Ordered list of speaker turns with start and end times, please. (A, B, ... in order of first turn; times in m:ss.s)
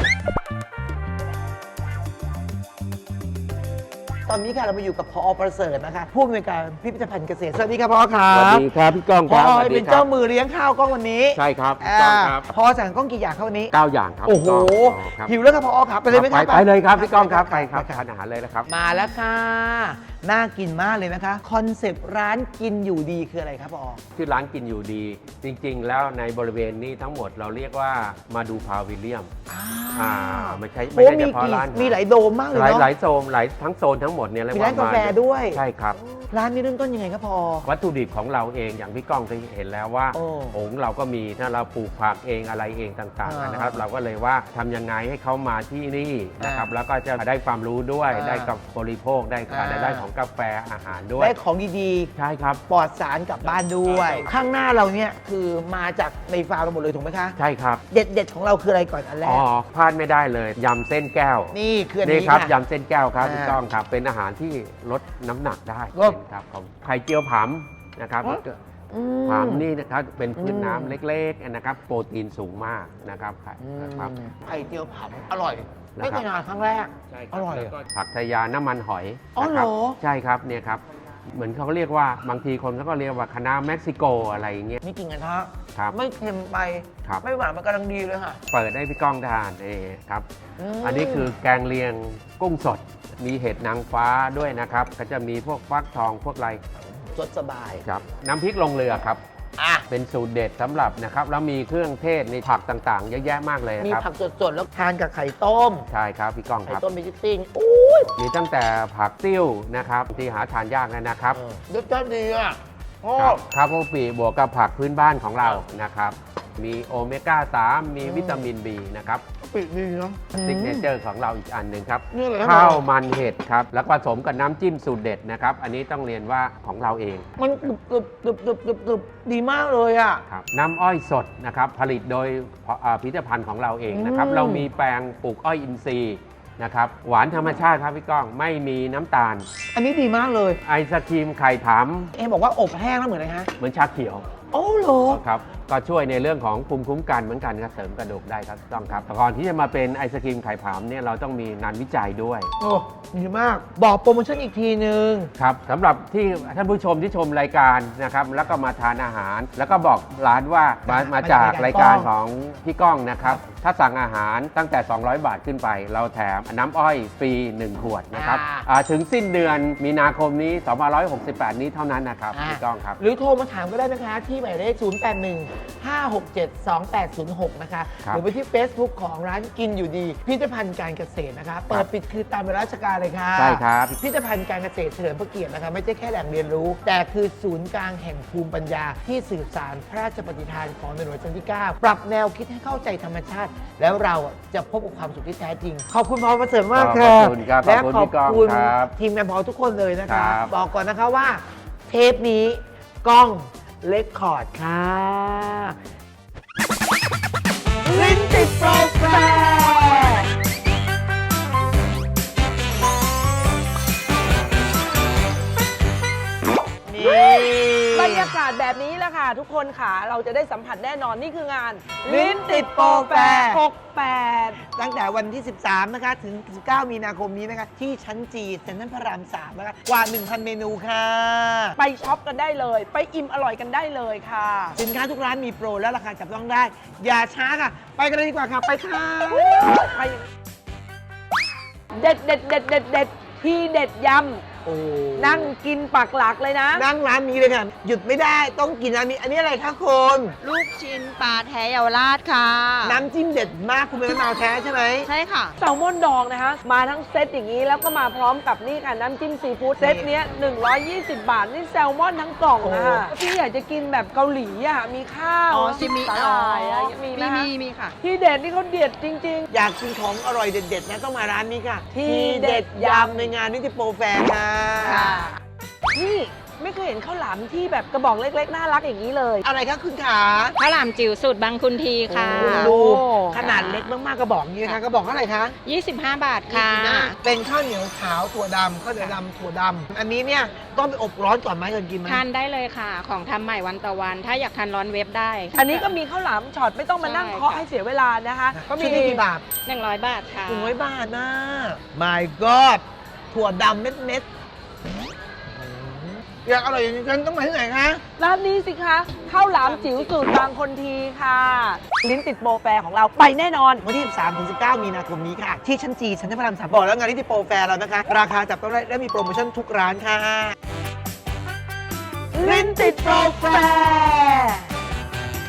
0:04.2-0:08.6 A
0:08.3-0:10.1 B
0:09.2-0:13.7 A
0:11.4-0:12.5 B
0:13.7-0:15.4 B
0:14.2-0:18.0 A
0:16.1-0:18.7 B
0:18.7-0:24.0 A
0:24.2-0:29.3 B
0:29.5-0:32.9 A
0:30.0-0:32.0 B
0:32.5-0:36.0 B
0:34.5-0:35.6 A
0:36.2-0:37.7 A
0:37.7-0:51.4 B
0:40.1-0:40.6 A
0:43.2-0:43.8 A
0:46.4-0:46.7 A
0:48.1-0:48.5 A
0:49.5-0:50.1 A
0:51.2-0:52.1 A
0:52.2-0:52.6 B
0:52.7-0:57.4 A
0:53.4-0:54.3 B
0:57.4-0:57.8 B
0:57.9-0:59.4 A
0:59.2-1:08.6 B
1:01.5-1:02.5 A
1:03.2-1:03.6 A
1:08.2-1:09.7 A
1:09.2-1:14.1 B
1:10.4-1:11.0 A
1:13.6-1:17.7 A
1:16.0-1:16.2 B
1:17.1-1:20.8 B
1:19.4-1:20.0 A
1:21.3-1:24.8 B
1:24.8-1:28.4 A
1:28.5-1:30.2 B
1:30.6-1:31.3 A
1:30.8-1:36.6 B
1:37.1-1:37.9 A
1:37.8-1:39.2 B
1:39.6-1:39.8 A
1:39.9-1:44.0 B
1:43.8-1:45.9 A
1:45.9-1:46.8 B
1:46.7-1:48.2 A
1:48.2-1:51.4 B
1:51.3-1:53.4 A
1:53.2-1:59.2 B
1:58.0-1:58.5 A
1:59.5-2:00.9 A
2:00.4-2:07.3 B
2:02.1-2:02.8 A
2:07.4-2:10.2 A
2:10.3-2:19.5 B
2:13.9-2:14.7 A
2:19.7-2:20.6 A
2:20.6-2:22.1 B
2:22.2-2:23.5 A
2:23.6-2:24.3 B
2:24.5-2:25.2 A
2:25.1-2:32.5 B
2:32.6-2:35.3 A
2:35.4-2:53.0 B
2:40.9-2:42.1 A
2:48.1-2:48.7 A
2:52.3-3:25.8 A
3:03.4-3:04.0 B
3:16.7-3:18.9 B
3:20.1-3:20.5 B
3:27.9-3:30.3 C
3:27.9-3:30.2 A
3:36.9-3:38.4 A
3:37.0-3:44.6 C
3:42.0-3:43.6 A
3:44.6-3:51.8 A
3:51.8-3:54.8 C
3:54.8-3:59.9 A
3:59.5-4:00.2 C
4:02.0-4:04.5 C
4:04.6-4:05.5 A
4:05.2-4:06.9 C
4:06.7-4:10.4 A
4:10.4-4:13.0 D
4:12.8-4:15.1 A
4:15.0-4:15.5 D
4:15.6-4:29.5 C
4:19.8-4:20.1 A
4:22.6-4:23.1 A
4:25.5-4:28.0 D
4:29.5-4:35.2 A
4:31.9-4:33.3 C
4:34.9-4:35.3 C
4:34.9-4:35.3 D
4:36.0-4:39.5 C
4:39.4-4:40.6 A
4:40.6-4:42.8 D
4:42.1-4:45.5 A
4:42.3-4:43.4 C
4:43.4-4:44.0 D
4:45.6-4:47.2 D
4:46.5-4:52.2 A
4:52.0-4:55.9 D
4:55.5-4:59.2 C
4:57.0-4:57.7 D
4:58.5-4:59.5 A
4:59.7-5:00.8 D
5:00.5-5:04.3 A
5:05.5-5:08.0 A
5:08.2-5:13.9 C
5:09.6-5:10.4 D
5:13.8-5:20.6 A
5:22.4-5:24.6 C
5:22.4-5:24.5 A